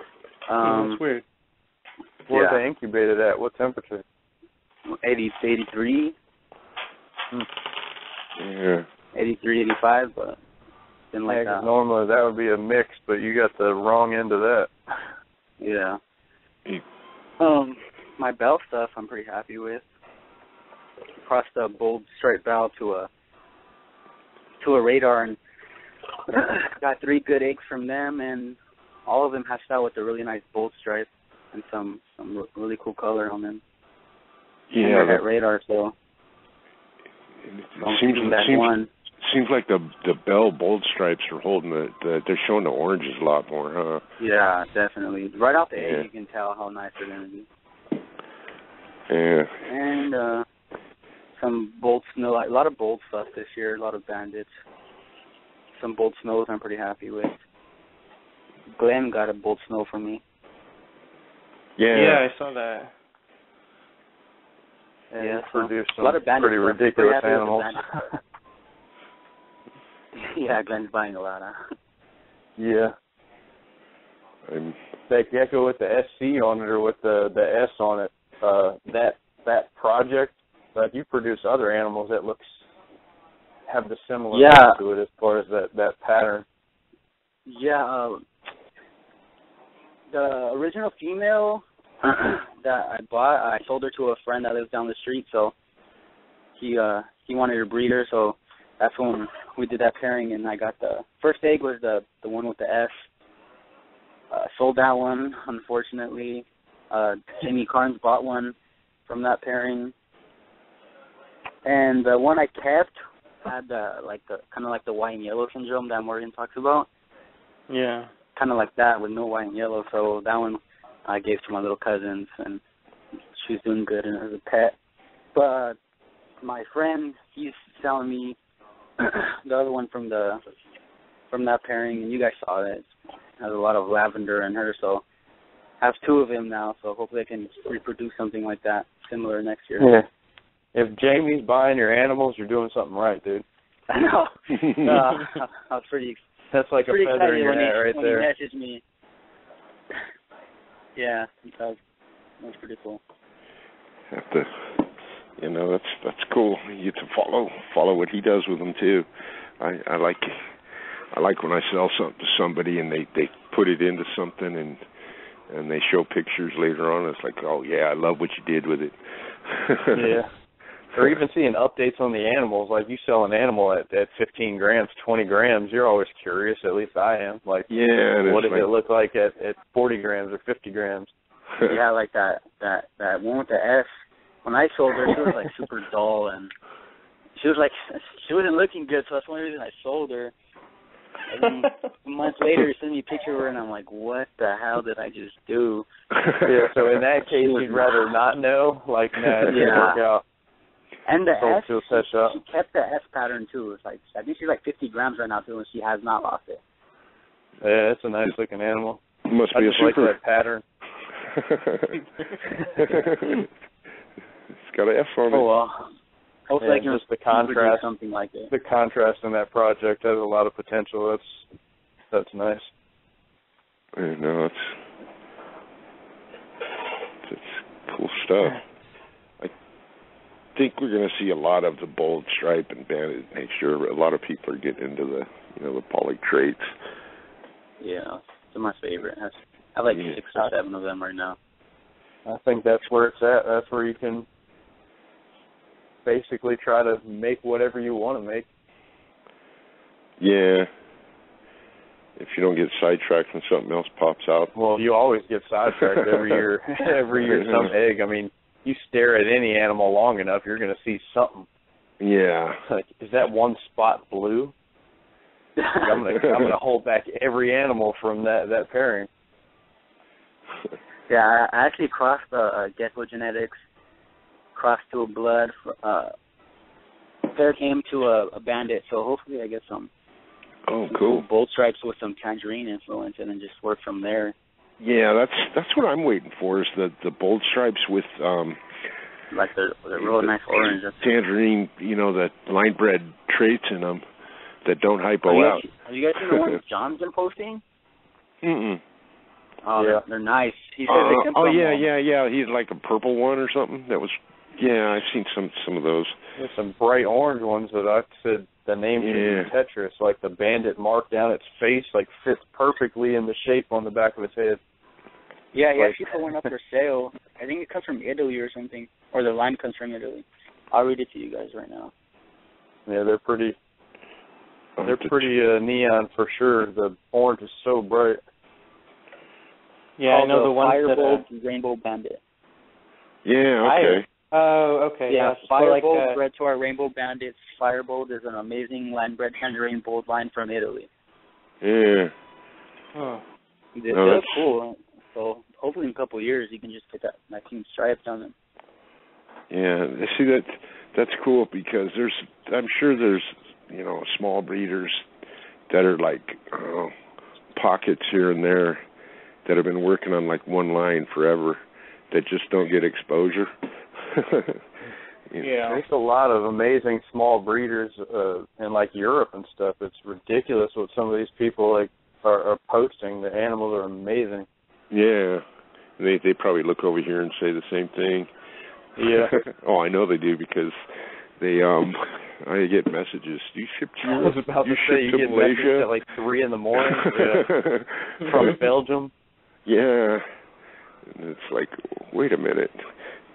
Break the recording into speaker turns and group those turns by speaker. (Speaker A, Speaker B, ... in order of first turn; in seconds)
Speaker A: 0.5-1.0, 2.3-2.6, 4.9-6.1, 9.1-10.4, 11.1-11.7, 15.6-16.0, 17.4-19.8, 21.2-23.1, 24.6-25.4, 26.3-33.6, 34.8-35.9, 37.8-38.9, 44.2-47.5, 49.6-50.5, 51.4-54.5, 55.8-57.3, 58.8-60.2, 65.2-67.8, 70.2-71.6, 84.3-84.8, 87.5-88.2, 90.1-95.5, 96.6-103.0, 104.3-108.5, 109.0-109.9, 111.6-116.9, 118.3-122.6, 123.3-124.8, 125.3-125.8, 126.4-128.4, 129.0-130.4, 131.3-132.9, 133.4-135.0, 135.8-139.9, 143.9-146.2, 146.8-148.8, 150.9-151.8, 152.4-153.0, 181.7-183.9, 184.4-186.5, 187.4-190.3, 191.3-195.9, 197.4-198.0, 199.4-200.0, 201.1-206.6, 216.5-218.5, 237.8-241.4, 271.1-273.5, 274.5-276.1, 277.3-279.9, 280.9-284.3, 289.3-291.0, 295.2-297.6, 299.6-301.8, 315.5-321.9, 330.1-332.2, 335.1-340.9, 343.8-348.3
Speaker B: 0.6-1.2, 61.9-62.9, 117.7-118.1, 330.0-331.2, 333.6-336.2, 342.9-343.2, 365.4-365.8
Speaker C: 2.3-4.0, 11.2-14.7, 65.1-68.2, 72.6-72.9, 75.1-82.5, 83.7-86.4, 139.8-140.1, 140.7-143.4, 146.5-148.3, 169.9-170.3, 170.9-177.7, 178.2-181.1, 196.4-200.2, 201.4-202.4, 207.6-209.0, 209.5-210.6, 215.3-215.8, 216.6-217.9, 218.5-221.4, 222.1-222.7, 242.2-244.2, 246.0-248.5, 254.5-261.5, 262.7-264.5, 265.7-269.1, 299.8-300.0, 306.4-314.6, 315.8-316.5, 322.9-323.6, 324.8-328.2, 365.6-374.5, 379.0-379.4, 384.1-387.5, 388.2-389.1
Speaker D: 8.4-8.9, 34.7-35.2, 37.5-44.0, 45.8-46.1, 49.1-49.6, 61.8-62.2, 74.5-74.8, 154.1-159.1, 159.6-160.5, 161.1-164.8, 165.5-170.2, 177.7-178.7, 196.1-196.6, 199.3-199.8, 209.2-210.2, 211.2-212.0, 212.7-213.5, 214.5-215.5, 223.9-224.8, 227.2-228.6, 230.5-236.7, 239.9-240.2, 250.2-250.7, 252.2-254.5, 255.8-256.4, 257.3-257.7, 262.0-262.6, 280.7-281.2, 284.8-288.6, 290.0-294.0, 294.6-295.6, 296.1-296.6, 298.4-298.8, 300.9-306.1, 309.0-309.5, 324.8-325.3, 333.2-334.1, 341.6-342.1, 343.9-344.5, 349.5-355.1, 355.7-356.9, 357.5-358.8, 359.4-364.6, 374.9-375.4, 376.0-378.3, 379.0-385.9, 386.8-388.5, 389.6-390.2, 391.0-392.9